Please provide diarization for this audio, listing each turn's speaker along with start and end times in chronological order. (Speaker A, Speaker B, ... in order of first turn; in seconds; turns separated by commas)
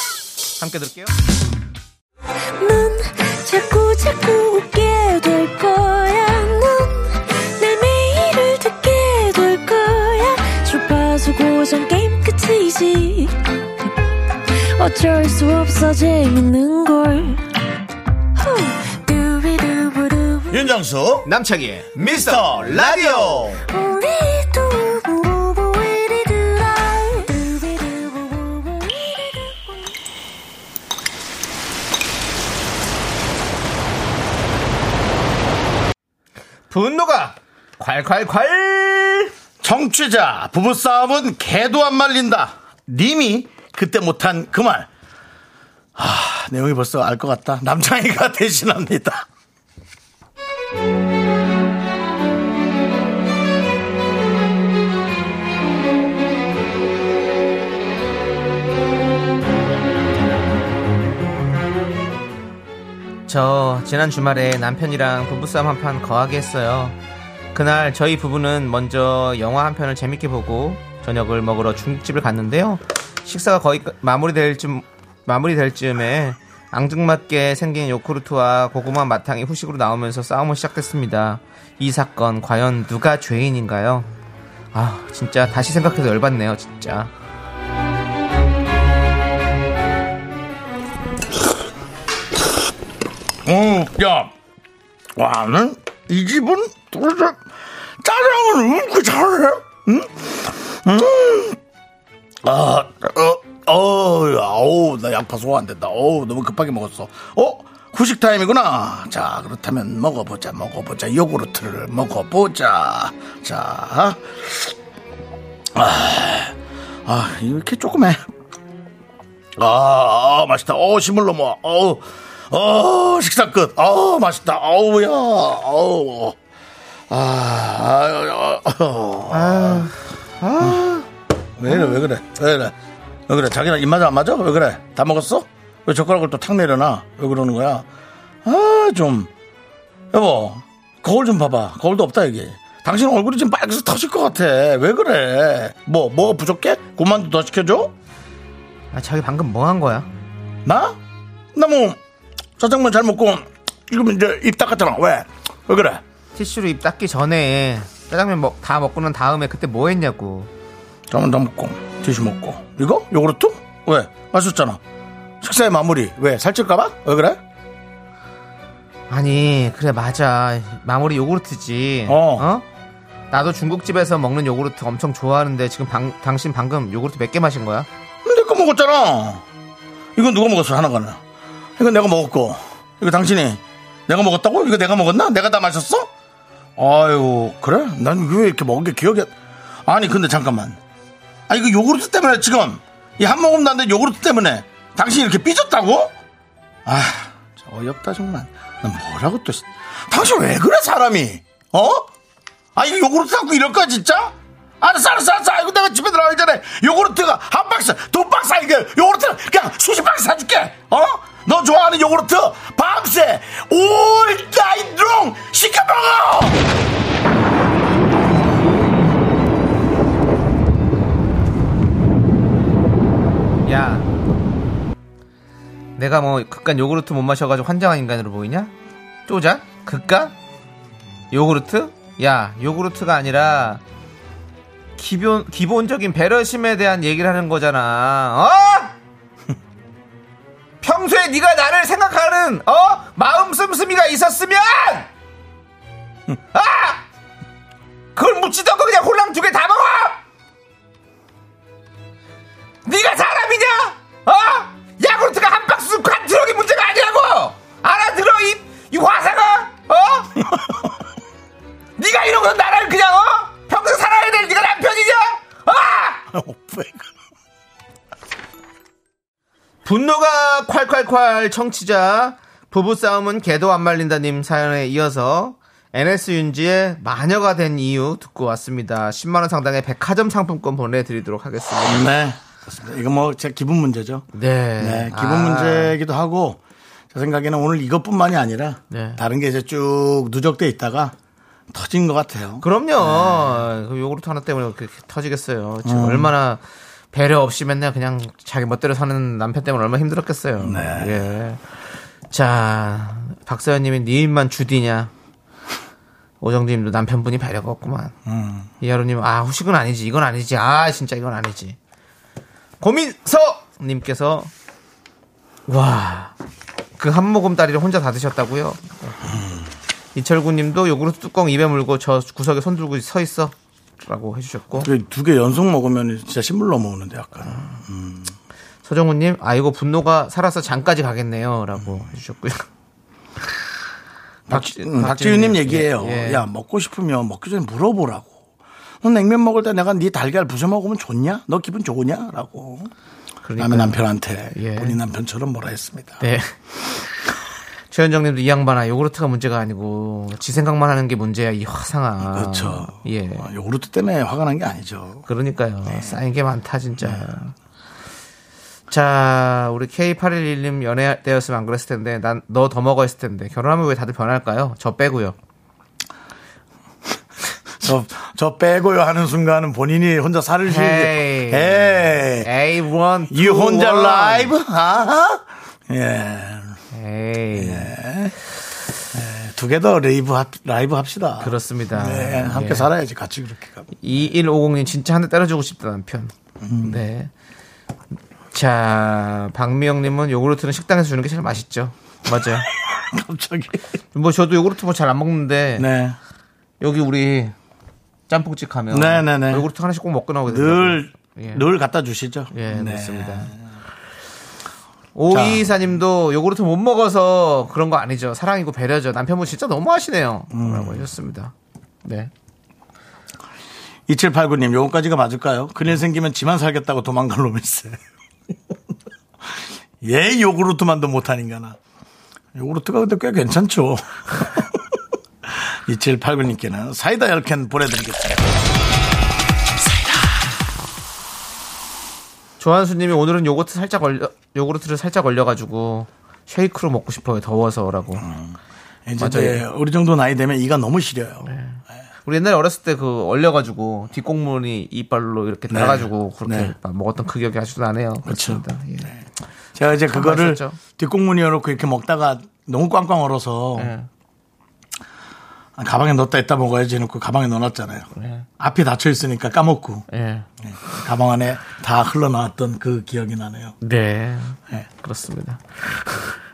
Speaker A: 0.6-1.1, Speaker B: 2.6-13.9, Speaker B: 14.5-17.4, Speaker B: 18.3-20.7, Speaker C: 20.5-21.3, Speaker A: 21.2-23.5, Speaker C: 22.0-23.6, Speaker B: 23.7-29.9, Speaker A: 36.7-39.3, Speaker C: 39.6-44.9, Speaker C: 46.0-49.2, Speaker A: 63.3-66.9, Speaker A: 67.5-84.1, Speaker A: 84.7-87.1, Speaker C: 93.5-94.3, Speaker C: 95.2-97.4, Speaker C: 98.0-101.6, Speaker C: 102.4-114.7, Speaker C: 115.7-116.5, Speaker C: 117.0-118.2, Speaker C: 119.5-126.3, Speaker C: 127.1-129.9, Speaker A: 129.3-131.1, Speaker C: 130.6-130.9, Speaker C: 131.6-132.7, Speaker C: 133.3-137.9, Speaker C: 138.4-139.3, Speaker C: 140.1-147.9, Speaker A: 148.9-150.1, Speaker C: 150.7-151.0, Speaker C: 151.5-152.0, Speaker C: 152.6-156.0, Speaker A: 156.3-160.5, Speaker C: 161.1-164.8, Speaker C: 165.4-167.4, Speaker A: 169.1-172.6, Speaker C: 172.1-172.4, Speaker A: 173.3-177.9, Speaker C: 178.2-179.4, Speaker C: 180.2-181.2, Speaker C: 181.8-186.1, Speaker C: 186.8-189.3, Speaker C: 189.8-190.8, Speaker C: 191.5-196.1, Speaker C: 196.8-202.1, Speaker C: 202.7-216.6, Speaker A: 223.7-224.1, Speaker A: 226.0-228.7, Speaker A: 229.3-230.3, Speaker A: 231.3-233.8, Speaker A: 235.0-238.9, Speaker A: 240.8-245.1, Speaker A: 246.5-247.0, Speaker A: 248.1-250.2, Speaker A: 252.8-260.4, Speaker C: 260.4-260.8, Speaker A: 262.0-266.2, Speaker C: 266.3-267.1, Speaker A: 269.8-282.1, Speaker C: 281.8-284.2, Speaker A: 284.3-285.9, Speaker C: 284.8-286.6, Speaker C: 287.1-291.1, Speaker A: 288.9-289.2, Speaker C: 291.7-293.6, Speaker A: 292.6-301.6, Speaker C: 295.8-296.3, Speaker C: 300.6-301.2, Speaker A: 302.3-305.1, Speaker A: 306.4-308.1, Speaker C: 308.2-308.7, Speaker A: 308.8-311.8, Speaker A: 312.8-314.5, Speaker A: 315.7-316.3, Speaker A: 317.0-319.3, Speaker C: 319.3-319.6, Speaker A: 320.1-324.9, Speaker C: 324.7-328.3, Speaker A: 327.4-327.8, Speaker A: 328.8-332.6, Speaker C: 334.5-338.4, Speaker A: 334.5-336.4, Speaker C: 339.0-342.9, Speaker A: 343.4-344.0, Speaker C: 343.6-346.2, Speaker A: 344.5-345.0, Speaker A: 346.2-346.5, Speaker A: 347.9-353.5, Speaker C: 352.2-355.2, Speaker A: 355.3-357.5, Speaker C: 355.9-356.1, Speaker A: 358.9-365.3, Speaker C: 367.7-372.5, Speaker A: 370.6-374.6, Speaker C: 373.3-376.8, Speaker A: 376.9-377.9, Speaker C: 377.6-378.3, Speaker C: 379.1-383.9, Speaker A: 381.4-382.9, Speaker A: 384.0-387.3, Speaker C: 386.6-387.0, Speaker A: 388.5-392.7, Speaker C: 392.8-393.8, Speaker A: 394.1-395.9, Speaker C: 395.8-396.2, Speaker A: 396.8-397.5, Speaker A: 398.3-401.6, Speaker C: 398.9-399.7, Speaker C: 400.5-403.6, Speaker A: 402.5-403.5, Speaker A: 405.1-411.5, Speaker C: 405.3-405.7, Speaker C: 410.5-411.1, Speaker A: 412.0-412.3, Speaker C: 414.1-418.0, Speaker C: 420.0-421.8, Speaker C: 422.5-424.8, Speaker C: 425.6-428.6, Speaker A: 432.6-438.3, Speaker C: 438.2-438.6, Speaker C: 439.1-441.5, Speaker A: 439.2-439.6, Speaker A: 441.4-449.1, Speaker C: 445.7-446.7, Speaker C: 448.2-448.6, Speaker C: 449.8-453.9, Speaker A: 450.1-450.8, Speaker A: 453.8-454.1, Speaker C: 455.8-460.1, Speaker A: 458.1-458.4, Speaker A: 460.1-460.5, Speaker C: 460.6-463.8, Speaker A: 463.8-466.3